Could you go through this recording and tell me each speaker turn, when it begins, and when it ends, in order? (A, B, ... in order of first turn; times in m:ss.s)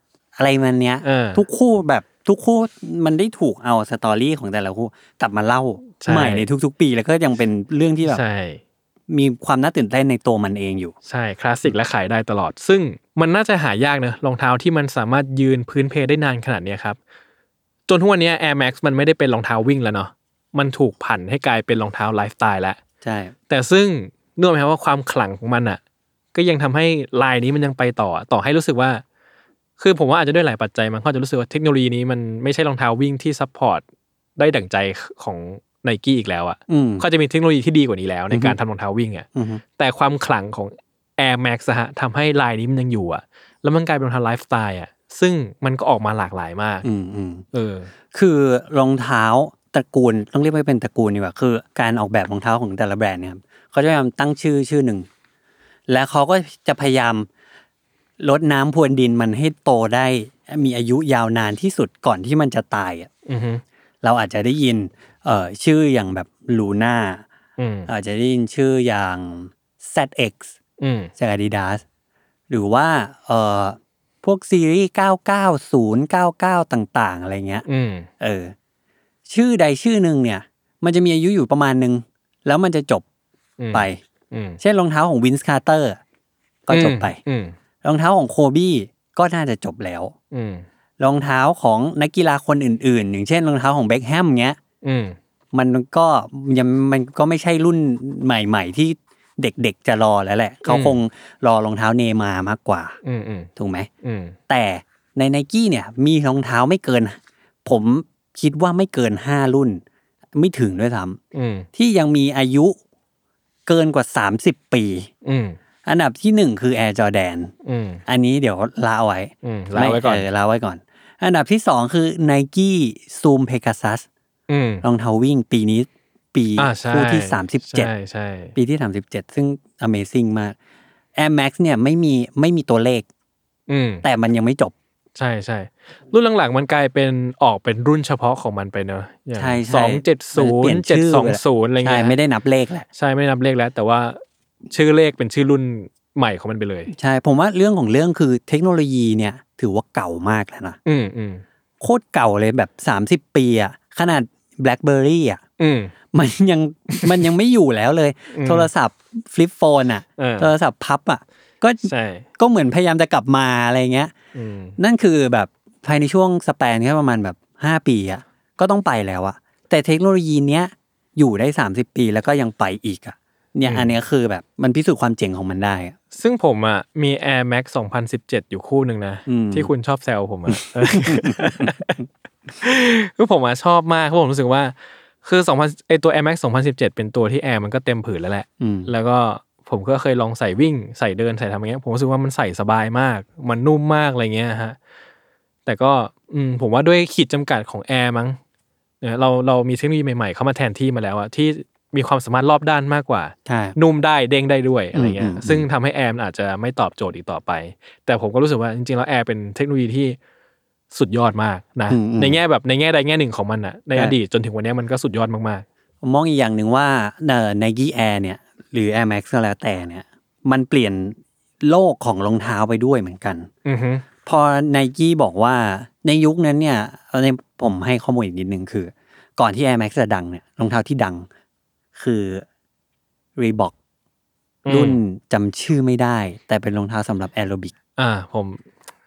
0:00.4-0:08.2 A
0:01.0-0:01.4 B
0:06.0-0:06.4 B
0:08.0-0:08.6 B
0:09.1-0:10.9 A
0:11.1-0:17.0 B
0:17.9-0:22.8 B
0:23.0-0:23.3 A
0:23.5-0:25.8 B
0:26.3-0:29.0 B
0:29.8-0:33.8 B
0:34.4-0:46.8 B
0:36.7-0:37.0 A
0:38.3-0:38.6 A
0:39.3-0:39.6 A
0:46.8-0:47.4 A
0:47.5-0:47.9 B
0:48.1-0:55.0 A
0:55.9-0:57.3 A
0:58.2-1:03.1 A
1:03.3-1:03.6 B
1:04.0-1:07.2 A
1:07.6-1:07.9 B
1:07.9-1:10.5 A
1:10.8-1:11.1 B
1:11.2-1:11.8 A
1:12.5-1:17.6 A
1:17.6-1:18.1 B
1:18.2-1:18.5 A
1:19.2-1:23.0 A
1:23.6-1:24.6 B
1:23.7-1:24.0 A
1:24.6-1:26.0 A
1:26.7-1:27.2 A
1:26.7-1:27.5 B
1:27.8-1:30.1 A
1:30.3-1:30.6 B
1:31.0-1:34.6 A
1:34.8-1:35.2 B
1:35.5-1:42.9 A
1:40.6-1:41.0 B
1:43.0-1:43.5 B
1:43.6-1:43.9 A
1:44.0-1:44.4 B
1:44.5-1:49.8 A
1:50.3-1:51.2 A
1:51.3-1:51.7 B
1:51.7-1:52.8 A
1:53.7-1:55.1 A
1:55.2-1:55.6 B
1:55.8-1:57.5 A
1:57.6-1:58.0 B
1:58.1-2:04.0 A
1:59.4-2:00.2 B
2:04.5-2:04.8 B
2:04.8-2:07.9 A
2:06.6-2:08.6 B
2:08.6-2:10.5 A
2:11.2-2:13.1 A
2:13.7-2:14.0 B
2:14.0-2:14.7 A
2:15.2-2:22.2 B
2:19.3-2:22.9 A
2:23.0-2:26.9 B
2:26.9-2:30.8 A
2:30.8-2:31.4 B
2:31.8-2:35.4 A
2:35.6-2:35.9 B
2:36.1-2:44.1 A
2:36.9-2:37.2 B
2:38.3-2:38.7 B
2:40.2-2:40.5 B
2:41.8-2:42.3 B
2:44.3-2:44.8 B
2:44.8-2:55.9 A
2:53.6-2:54.0 B
2:56.1-3:02.0 B
2:59.3-2:59.7 A
3:00.5-3:01.7 A
3:02.6-3:14.8 B
3:08.6-3:08.9 A
3:15.6-3:18.4 B
3:19.0-3:30.2 B
3:23.4-3:23.8 A
3:24.9-3:25.6 A
3:30.9-3:35.6 B
3:31.9-3:32.4 A
3:36.0-3:43.5 A
3:43.6-3:44.0 B
3:44.2-3:51.2 A
3:51.9-3:52.4 A
3:53.4-3:53.7 A
3:54.6-3:55.0 B
3:54.7-3:57.7 A
3:58.0-3:58.6 B